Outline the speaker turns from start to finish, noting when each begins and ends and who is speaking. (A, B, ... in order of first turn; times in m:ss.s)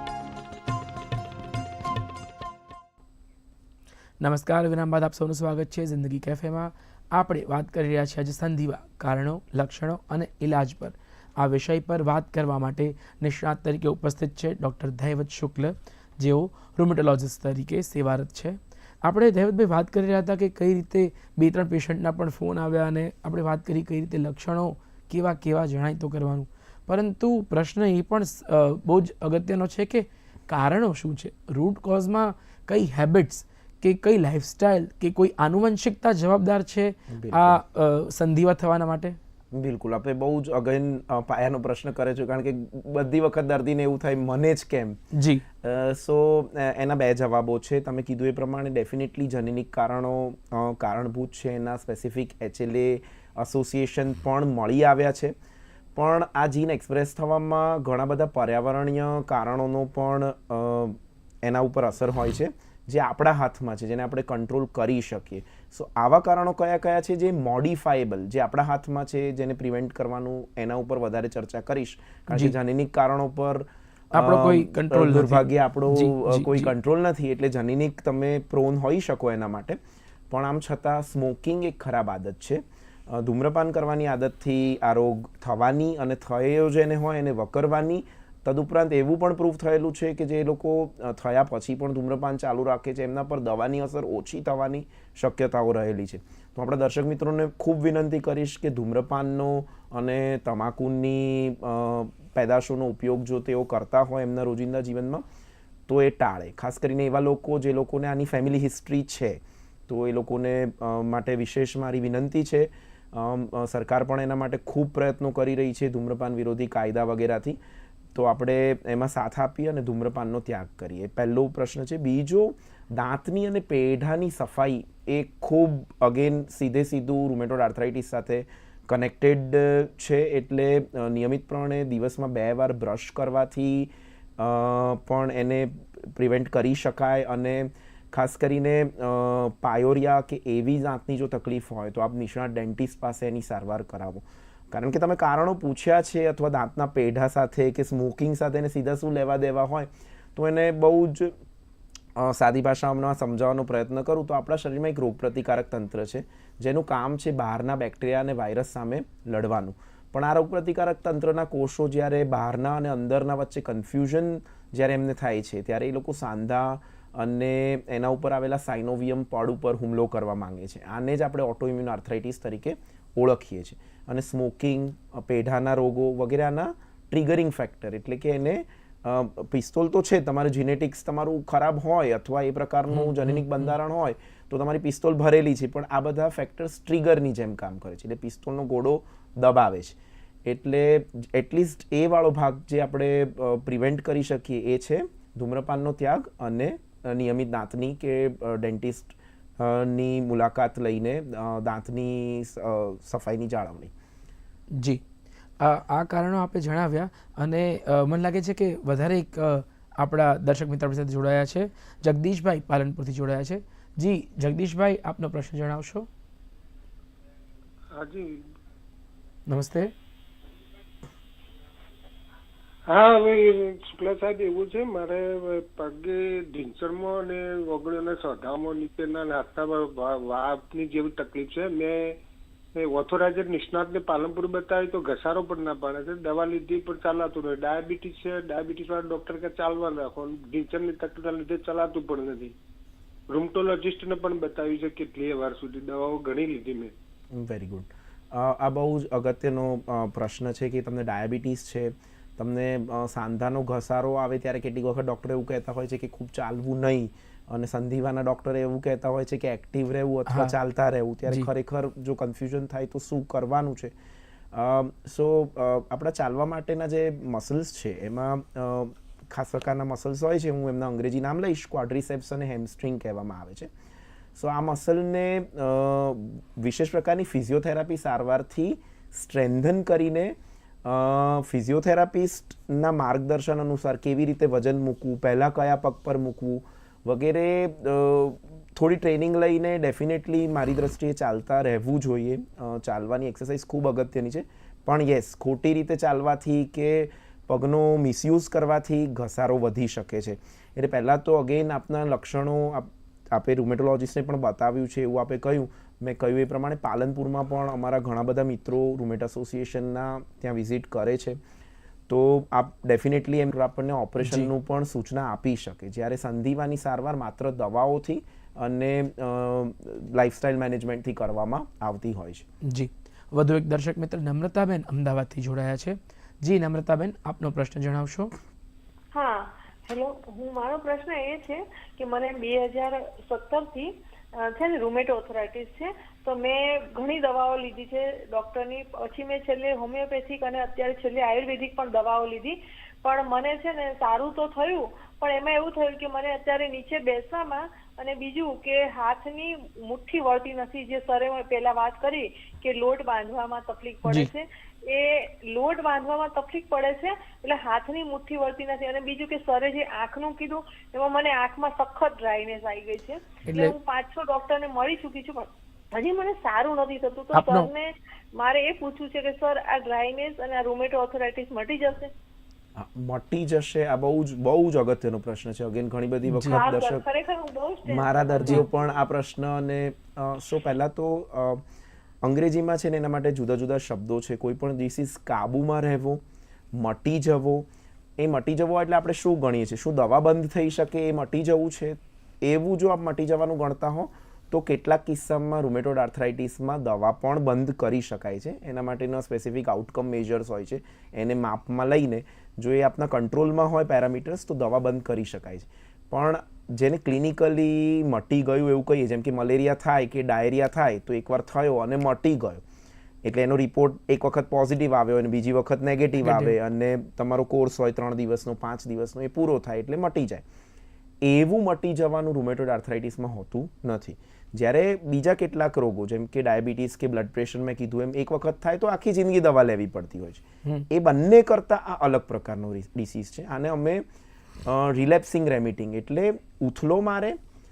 0:04.2-0:39.2 A
0:37.1-0:37.6 B
0:39.5-0:45.0 B
0:45.1-0:45.4 A
0:45.6-0:55.3 B
0:56.0-1:19.8 B
1:14.1-1:16.7 A
1:20.3-1:45.2 B
1:45.9-1:57.6 B
1:58.1-2:31.3 B
2:32.2-3:23.9 B
3:02.9-3:03.7 A
3:24.7-3:25.0 A
3:25.6-3:36.1 A
3:38.0-3:38.4 C
3:39.5-3:39.9 A
3:42.9-3:52.2 C
3:52.8-4:02.5 C
4:03.3-4:06.9 C
4:07.3-4:23.9 B
4:24.5-4:33.7 B
4:34.4-5:11.4 B
5:12.1-5:22.5 B
5:14.2-5:14.5 A
5:22.6-5:28.3 A
5:29.1-6:12.1 D
5:54.1-5:54.3 A
6:03.5-6:03.8 A
6:07.3-6:07.7 A
6:12.8-6:17.0 B
6:16.3-6:16.6 A
6:16.5-6:18.7 D
6:17.9-6:21.6 B
6:22.2-6:52.6 B
6:53.2-7:00.4 B
6:56.2-6:56.5 A
7:01.2-7:14.0 B
7:14.6-7:17.4 B